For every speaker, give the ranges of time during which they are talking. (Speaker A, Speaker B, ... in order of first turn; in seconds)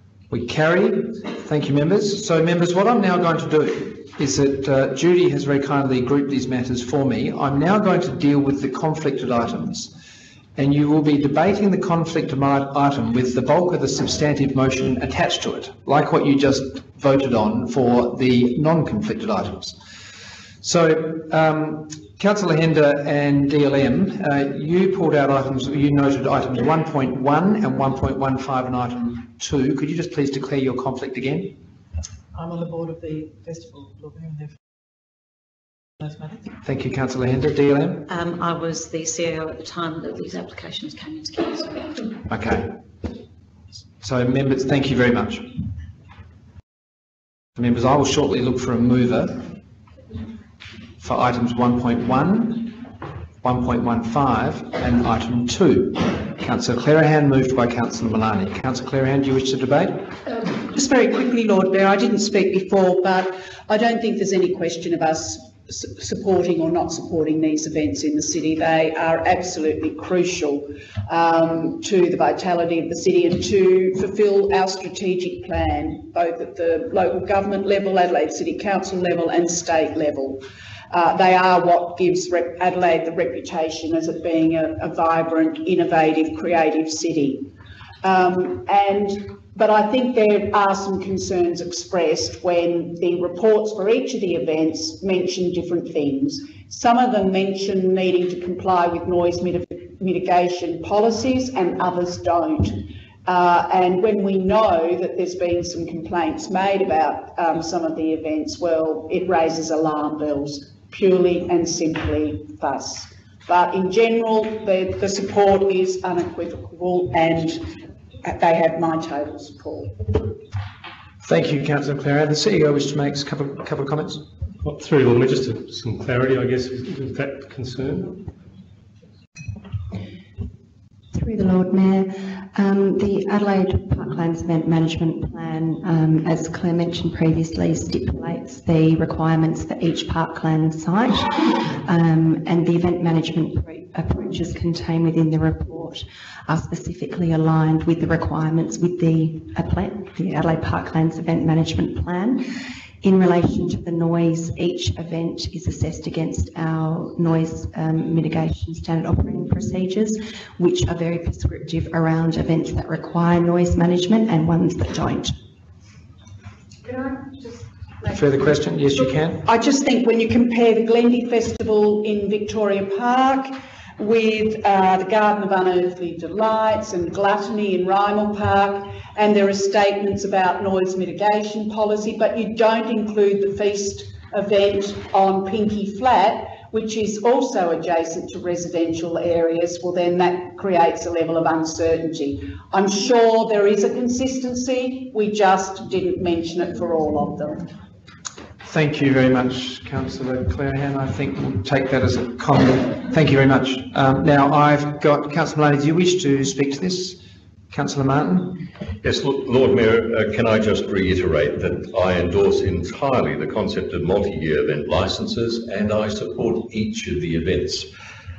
Speaker A: 0.3-9.9, 10.6-19.8, 20.6-31.5, 36.6-38.0, 42.3-42.7, 44.0-45.5, 47.6-49.4, 51.0-52.7, 53.4-60.0, 121.2-124.2, 168.0-169.4, 198.6-207.2, 207.7-208.6
Speaker B: 32.3-34.6, 36.0-36.5
Speaker C: 38.1-41.8
Speaker D: 60.5-80.4, 80.9-87.5, 88.0-117.6, 118.2-120.3, 169.4-197.7
Speaker E: 124.6-128.2
Speaker F: 131.1-152.4, 153.0-165.4
Speaker G: 209.0-217.9